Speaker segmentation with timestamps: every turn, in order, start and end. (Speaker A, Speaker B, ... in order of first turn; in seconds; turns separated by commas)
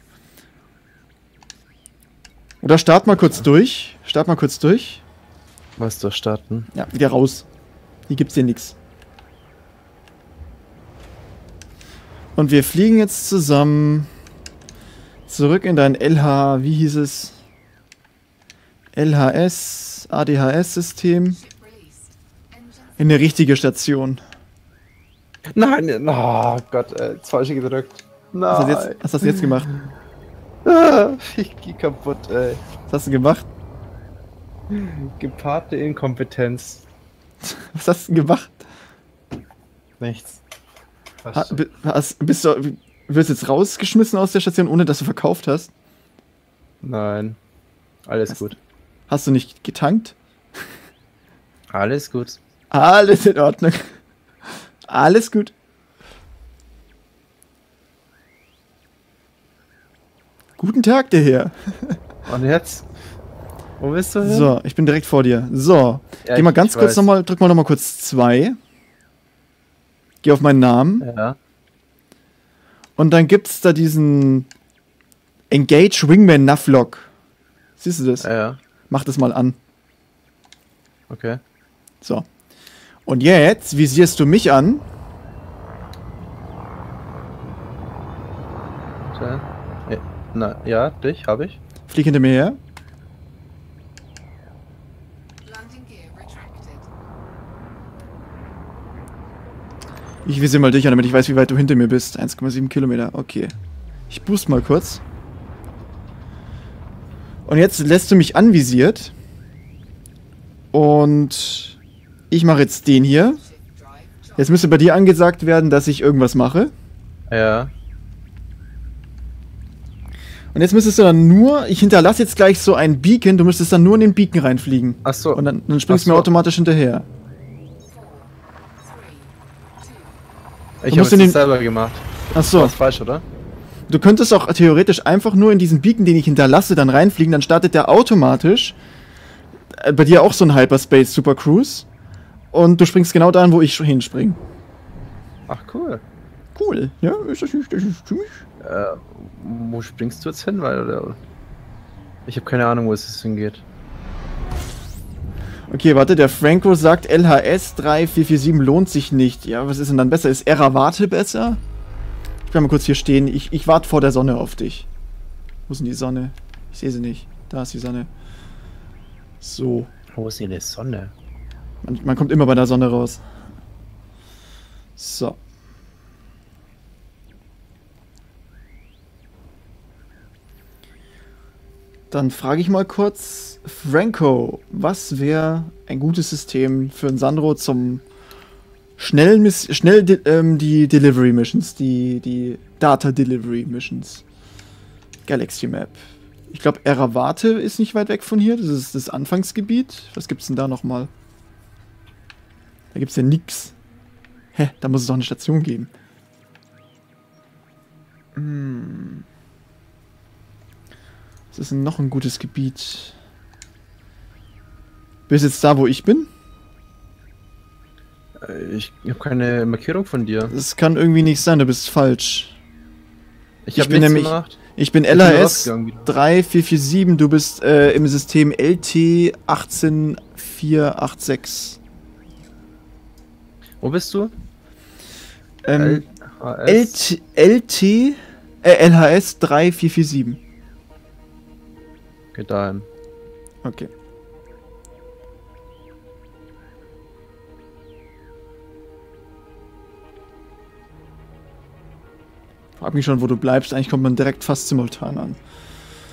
Speaker A: 2.6-5.0, Speaker B: 5.8-6.7, Speaker A: 6.7-7.5, Speaker A: 8.1-8.7, Speaker A: 12.3-14.1, Speaker A: 15.3-17.4, Speaker A: 18.9-21.4, Speaker C: 21.3-23.3, Speaker A: 23.0-24.2, Speaker B: 25.5-29.9, Speaker A: 28.5-29.7, Speaker B: 30.6-32.6, Speaker A: 32.9-33.5, Speaker B: 34.7-36.9, Speaker A: 37.5-38.5, Speaker B: 40.0-40.4, Speaker B: 41.2-41.6, Speaker A: 41.3-45.7, Speaker B: 46.8-47.4, Speaker B: 48.0-48.6, Speaker A: 49.1-50.2, Speaker B: 51.7-52.4, Speaker A: 52.7-53.9, Speaker A: 54.9-55.5, Speaker A: 60.6-62.0, Speaker B: 62.2-62.9, Speaker B: 63.8-64.5, Speaker A: 64.2-68.6, Speaker B: 66.2-67.1, Speaker A: 70.2-71.0, Speaker B: 71.0-71.4, Speaker A: 73.0-74.5, Speaker A: 75.5-77.1, Speaker A: 77.8-78.3, Speaker B: 78.2-78.6, Speaker A: 78.9-79.6, Speaker B: 81.1-81.4, Speaker A: 83.0-84.8, Speaker B: 89.1-91.6, Speaker A: 91.9-92.6, Speaker C: 95.4-96.9, Speaker A: 100.2-103.5, Speaker A: 104.1-105.0, Speaker A: 107.5-109.1, Speaker A: 110.7-111.8, Speaker A: 112.3-113.4, Speaker C: 113.0-114.7, Speaker A: 114.4-116.7, Speaker B: 117.3-117.7, Speaker A: 120.5-127.0, Speaker B: 125.0-126.3, Speaker C: 127.8-130.2, Speaker B: 130.8-133.2, Speaker A: 130.9-131.4, Speaker A: 132.3-132.7, Speaker A: 133.9-138.8, Speaker A: 139.7-141.9, Speaker A: 142.5-144.4, Speaker B: 145.5-146.0, Speaker A: 146.6-148.4, Speaker B: 148.6-151.2, Speaker B: 152.2-153.6, Speaker A: 155.7-161.6, Speaker A: 162.5-164.9, Speaker A: 165.7-168.1, Speaker A: 169.4-169.9, Speaker B: 170.1-171.1, Speaker A: 171.8-173.2, Speaker A: 175.0-175.4, Speaker A: 182.1-188.0, Speaker A: 189.0-194.2, Speaker A: 195.3-201.1, Speaker A: 202.9-203.7, Speaker A: 204.5-205.9, Speaker A: 208.3-209.2, Speaker A: 211.5-213.2, Speaker A: 215.3-216.3, Speaker B: 218.4-220.5, Speaker A: 220.5-222.6, Speaker B: 223.6-226.1, Speaker A: 223.7-231.8, Speaker B: 233.8-234.3, Speaker A: 235.6-236.1, Speaker B: 235.8-237.0, Speaker A: 236.7-240.4, Speaker B: 242.3-242.9, Speaker A: 243.6-243.9, Speaker A: 252.8-255.4